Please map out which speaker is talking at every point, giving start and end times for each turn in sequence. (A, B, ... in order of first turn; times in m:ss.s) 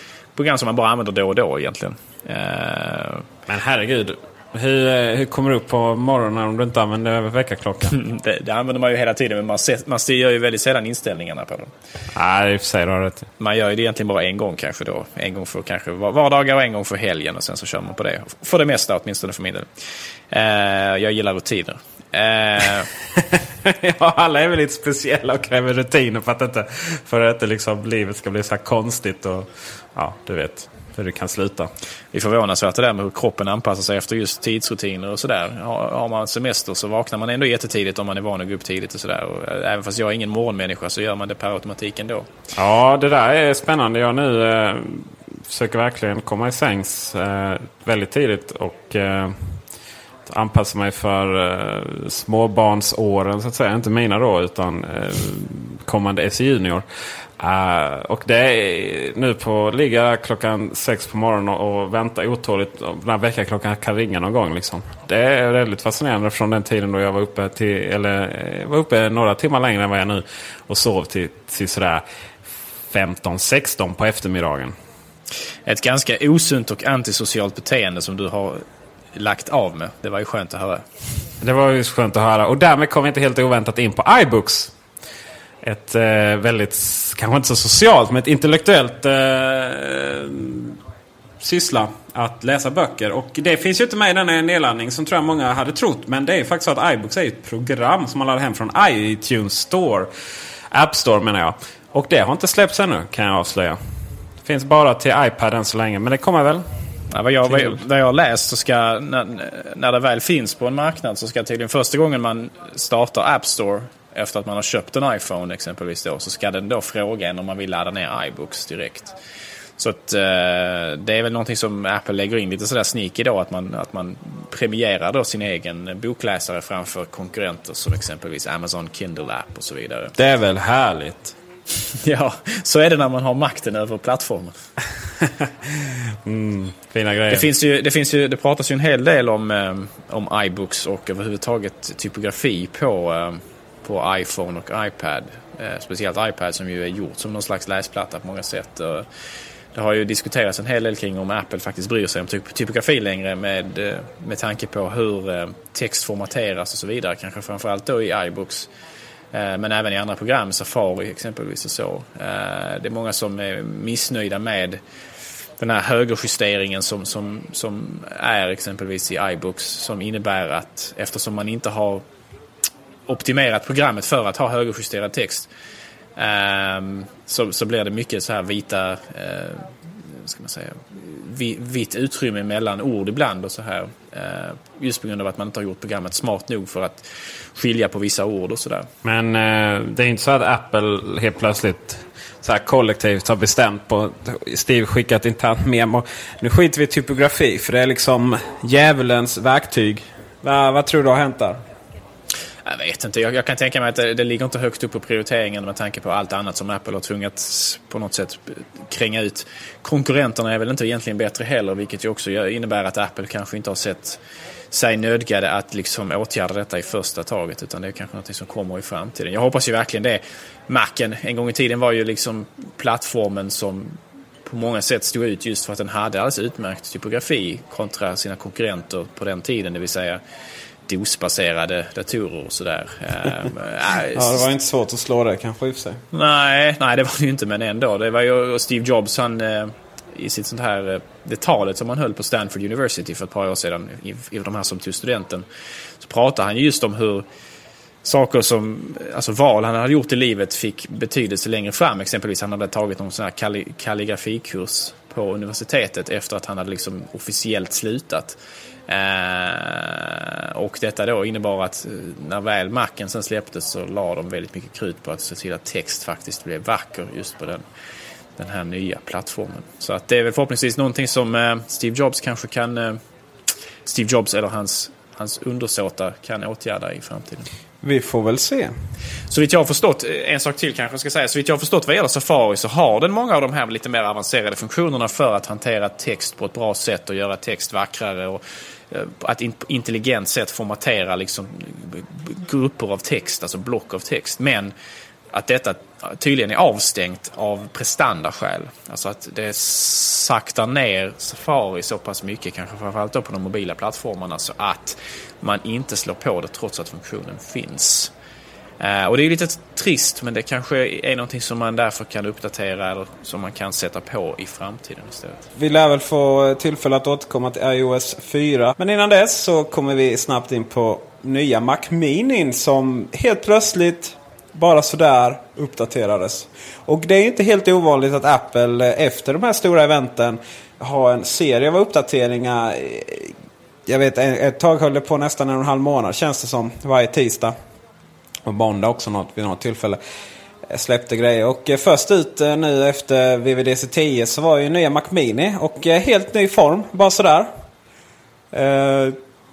0:00.3-0:03.2 A
0:03.5-0:07.9 B
0:07.9-0:11.7 A
0:12.2-0:13.2 B
0:13.4-0:19.7 A
0:20.3-0:22.9 A
0:23.9-0:31.7 B
0:32.1-0:42.3 A
0:42.6-0:45.0 B
0:45.5-0:49.3 B
0:50.3-0:56.8 B
0:57.4-1:12.0 B
1:12.9-1:14.7 B
1:15.6-1:18.6 A
1:19.1-1:20.8 A
1:21.4-1:24.7 B
1:25.6-1:30.3 B
1:31.4-1:40.0 B
1:40.7-1:43.8 B
1:44.5-1:46.6 B
1:47.1-1:59.2 A
1:59.8-2:10.1 A
2:10.2-2:11.2 B
2:12.0-2:14.5 A
2:16.3-2:17.4 B
2:17.3-2:29.0 A
2:29.7-2:38.7 A
2:39.3-2:44.8 A
2:45.6-2:52.0 A
2:53.1-2:55.5 A
2:56.2-3:08.9 A
3:09.0-3:11.9 B
3:12.4-3:21.6 B
3:22.6-3:34.2 A
3:34.7-3:50.2 A
3:50.9-3:54.5 A
3:54.1-3:56.0 B
3:56.1-4:05.4 A
4:06.0-4:07.2 A
4:08.0-4:27.6 A
4:28.4-4:33.0 A
4:33.8-4:37.5 A
4:37.8-4:38.7 B
4:39.3-4:54.7 A
4:55.3-5:08.1 A
5:08.8-5:15.4 A
5:15.6-5:33.3 B
5:33.9-5:37.6 B
5:38.4-5:40.0 B
5:40.7-5:47.5 B
5:48.5-5:49.2 B